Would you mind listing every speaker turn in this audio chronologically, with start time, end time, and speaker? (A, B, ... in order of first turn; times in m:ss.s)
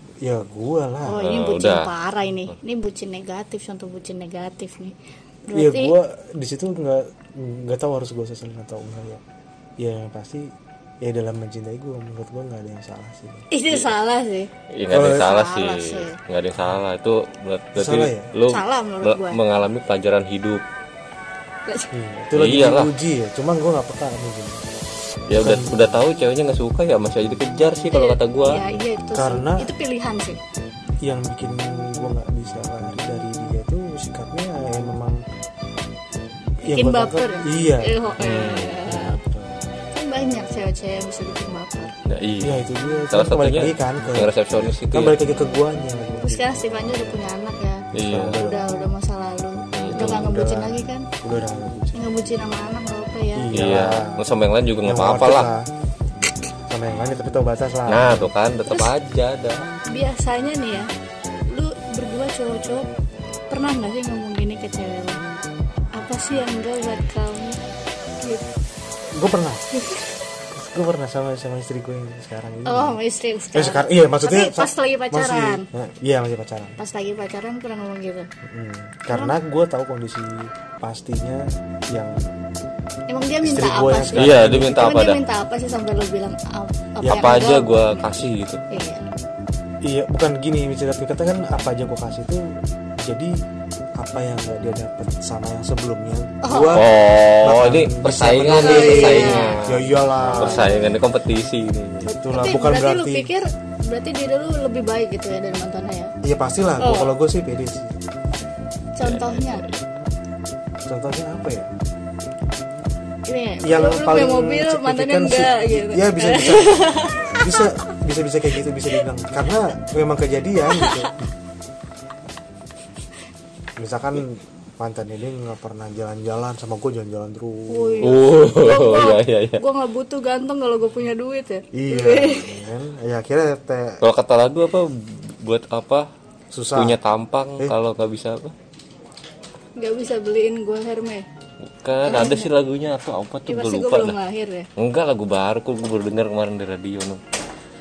0:00.2-0:01.2 A
0:01.0-0:04.9 B
0:01.2-0:01.9 C
0:05.5-0:06.0 B
0:05.5-0:09.2 A
0:09.8-0:10.5 A
0:11.0-0:13.4 A
0:13.5-0:14.5 B
0:14.7-0:20.6 C
0:14.9-0:15.3 A
0:15.2-0:16.1 B
0:17.8-0:18.3 A
0:18.5-0:19.4 B
0:21.9-0:24.6 A
0:22.3-0:22.9 C
0:25.3-0:25.8 A
0:25.3-0:28.6 C
0:27.9-0:30.4 B
0:29.1-0:29.7 A
0:31.0-0:35.2 A
0:36.6-0:38.0 A
0:36.6-0:39.2 B
0:38.2-0:38.8 C
0:38.8-0:39.6 A
0:39.9-0:41.9 B
0:42.0-0:45.2 C
0:42.4-0:44.4 A
0:44.9-0:47.2 A
0:46.1-0:51.1 B
0:47.9-0:48.8 A
0:47.9-0:48.4 C
0:49.7-0:50.3 C
0:49.9-0:52.6 A
0:51.9-0:53.6 B
0:53.3-0:54.3 A
0:53.5-0:55.6 C
0:54.8-0:55.7 A
0:56.7-0:58.3 A
0:57.9-0:59.7 C
0:59.9-1:00.9 B
1:01.5-1:02.9 B
1:03.5-1:05.2 B
1:05.9-1:07.6 B
1:09.1-1:09.6 A
1:10.5-1:13.0 A
1:12.6-1:15.6 B
1:13.5-1:16.8 A
1:16.8-1:18.3 B
1:18.5-1:22.3 A
1:23.1-1:28.1 B
1:23.4-1:24.8 A
1:24.1-1:25.2 C
1:27.0-1:27.3 A
1:27.0-1:28.6 C
1:28.7-1:29.0 B
1:29.8-1:32.5 A
1:33.0-1:33.4 A
1:34.0-1:36.9 A
1:36.4-1:36.8 B
1:36.7-1:42.0 C
1:37.4-1:40.7 A
1:38.6-1:39.6 B
1:40.4-1:40.9 B
1:42.0-1:43.3 A
1:42.0-1:46.1 B
1:46.2-1:48.1 A
1:46.8-1:47.1 B
1:49.0-1:49.6 B
1:49.0-1:50.0 C
1:50.8-1:51.7 A
1:53.2-1:57.6 B
1:53.6-2:01.2 A
2:00.7-2:01.1 B
2:03.8-2:08.2 A
2:07.7-2:12.6 B
2:08.0-2:09.6 C
2:11.7-2:14.0 A
2:14.0-2:16.0 C
2:16.5-2:17.0 A
2:16.7-2:18.5 C
2:19.8-2:21.2 B
2:21.8-2:24.2 C
2:22.0-2:22.5 B
2:23.5-2:24.7 B
2:24.8-2:27.2 C